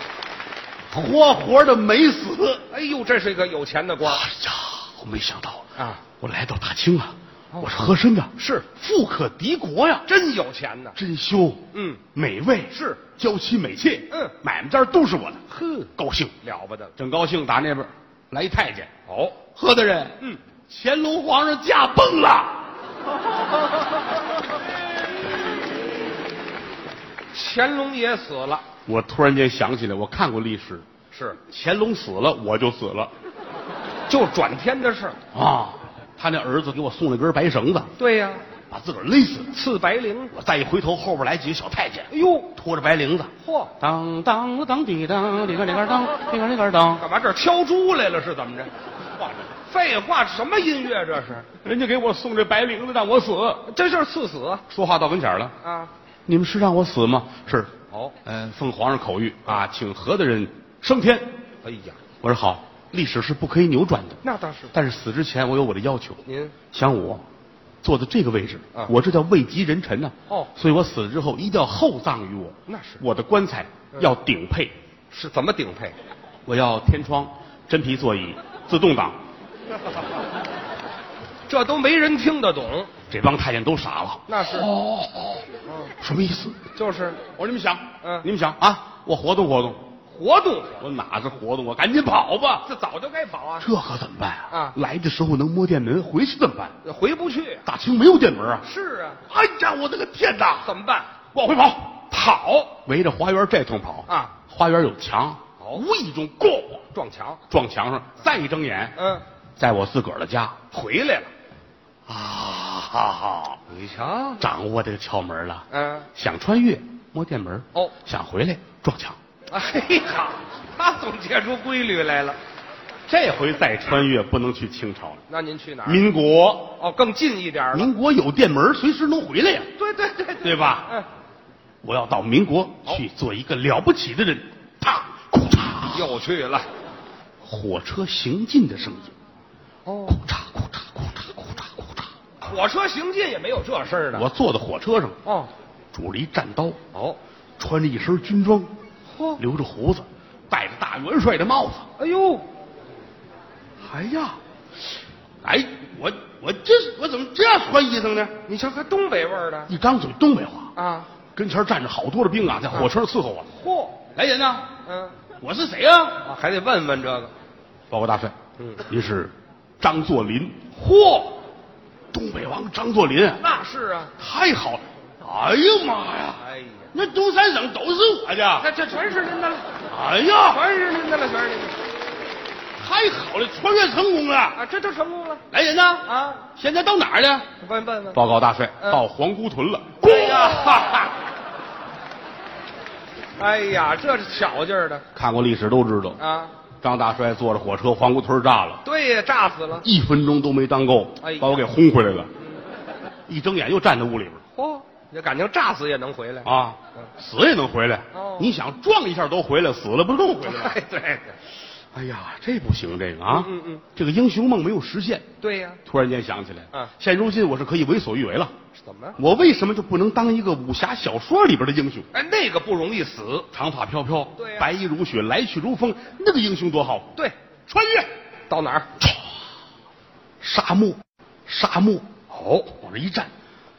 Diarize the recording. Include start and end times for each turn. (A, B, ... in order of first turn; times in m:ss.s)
0:00.9-0:02.6 A
0:02.7-0:04.2 B
0:04.0-0:10.1 A
0:05.8-0:06.0 B
0:07.5-0:08.7 B
0:10.0-0:11.0 B
0:11.0-0:15.4 A
0:11.7-0:12.0 B
0:12.7-0:13.0 B
0:15.5-0:15.9 B
0:16.0-0:16.3 A
0:16.4-0:16.9 B
0:17.0-0:18.9 A
0:19.1-0:19.4 B
0:19.5-0:20.2 A
0:20.7-0:22.7 A
0:27.3-0:28.6 B
0:28.8-0:30.8 A
0:31.1-0:31.4 B
0:31.5-0:33.1 A
0:34.1-0:35.2 B
0:35.3-0:37.9 A
0:38.0-0:38.4 B
0:38.7-0:39.5 A
0:39.5-0:40.3 B
0:40.3-0:47.0 A
0:42.1-0:42.5 B
0:43.4-0:43.7 B
0:47.0-0:48.7 B
0:49.6-0:51.5 B
0:51.6-0:53.7 A
0:53.6-0:54.6 B
0:54.7-0:55.5 A
0:55.6-0:55.9 B
0:56.3-0:57.7 A
0:57.9-0:58.2 B
0:58.2-1:01.3 A
1:01.6-1:02.0 B
1:02.2-1:07.2 A
1:04.2-1:04.7 B
1:06.2-1:06.5 B
1:07.8-1:14.7 A
1:12.7-1:13.0 B
1:15.1-1:16.0 B
1:16.4-1:19.2 A
1:21.5-1:22.9 B
1:23.1-1:25.5 A
1:24.3-1:24.7 B
1:25.6-1:25.9 B
1:26.0-1:26.6 A
1:26.7-1:27.2 B
1:27.3-1:29.8 A
1:28.0-1:28.3 B
1:30.0-1:30.8 B
1:30.8-1:32.7 A
1:32.6-1:33.7 B
1:33.6-1:36.8 A
1:34.5-1:34.8 B
1:36.8-1:37.6 B
1:37.6-1:38.6 A
1:38.6-1:39.2 B
1:39.3-1:40.7 A
1:40.6-1:41.1 B
1:41.3-1:42.0 A
1:42.1-1:42.8 B
1:42.8-1:46.8 A
1:44.1-1:44.4 B
1:45.6-1:45.8 B
1:46.9-1:47.4 B
1:47.5-1:49.0 A
1:49.0-1:49.2 B
1:49.6-1:50.6 A
1:50.7-1:51.3 B
1:52.1-1:53.6 A
1:53.7-1:54.4 B
1:54.4-1:59.2 A
1:55.7-1:56.1 B
1:59.5-2:02.4 B
2:03.1-2:05.2 A
2:05.3-2:06.1 B
2:05.8-2:06.8 A
2:06.8-2:07.9 B
2:07.7-2:09.7 A
2:09.8-2:11.1 B
2:10.4-2:10.9 A
2:11.8-2:16.1 A
2:15.9-2:16.6 B
2:17.4-2:19.1 A
2:19.8-2:20.2 B
2:20.1-2:22.1 A
2:22.4-2:24.3 B
2:24.1-2:25.2 A
2:25.2-2:25.5 B
2:25.9-2:26.8 A
2:26.9-2:27.2 B
2:27.6-2:28.7 A
2:29.1-2:29.4 B
2:29.4-2:31.9 A
2:32.0-2:32.5 B
2:33.8-2:34.4 A
2:35.4-2:38.4 A
2:38.4-2:39.7 B
2:39.7-2:40.7 A
2:40.8-2:41.1 B
2:41.3-2:43.5 A
2:43.4-2:44.0 B
2:44.1-2:44.7 A
2:44.8-2:45.2 B
2:45.4-2:46.2 A
2:46.2-2:47.3 B
2:47.9-2:48.3 A
2:48.6-2:48.8 B
2:48.8-2:50.6 A
2:50.7-2:51.4 B
2:52.1-2:53.4 A
2:53.4-2:54.1 B
2:54.2-2:58.7 A
2:56.4-2:56.9 B
2:58.6-2:59.7 B
2:59.9-3:00.6 A
3:00.4-3:01.8 B
3:02.8-3:04.6 A
3:04.5-3:05.4 B
3:05.5-3:07.5 A
3:06.0-3:06.5 B
3:07.6-3:08.2 B
3:08.1-3:11.1 A
3:10.0-3:11.1 B
3:13.4-3:15.0 B
3:15.1-3:16.2 A
3:16.2-3:16.5 B
3:16.8-3:18.8 A
3:18.8-3:19.9 B
3:19.8-3:22.3 A
3:21.2-3:21.6 B
3:23.3-3:24.4 A
3:24.5-3:26.5 B
3:26.4-3:30.8 A
3:28.1-3:28.6 B
3:30.4-3:31.4 B
3:31.9-3:35.2 A
3:33.3-3:33.8 B
3:35.4-3:35.8 B
3:35.8-3:38.5 A
3:38.7-3:39.2 B
3:39.2-3:42.1 A
3:42.1-3:43.5 B
3:43.5-3:47.2 A
3:44.3-3:44.7 B
3:47.7-3:48.1 A
3:48.5-3:48.9 B
3:50.4-3:52.1 A
3:52.3-3:52.7 B
3:52.7-3:53.3 A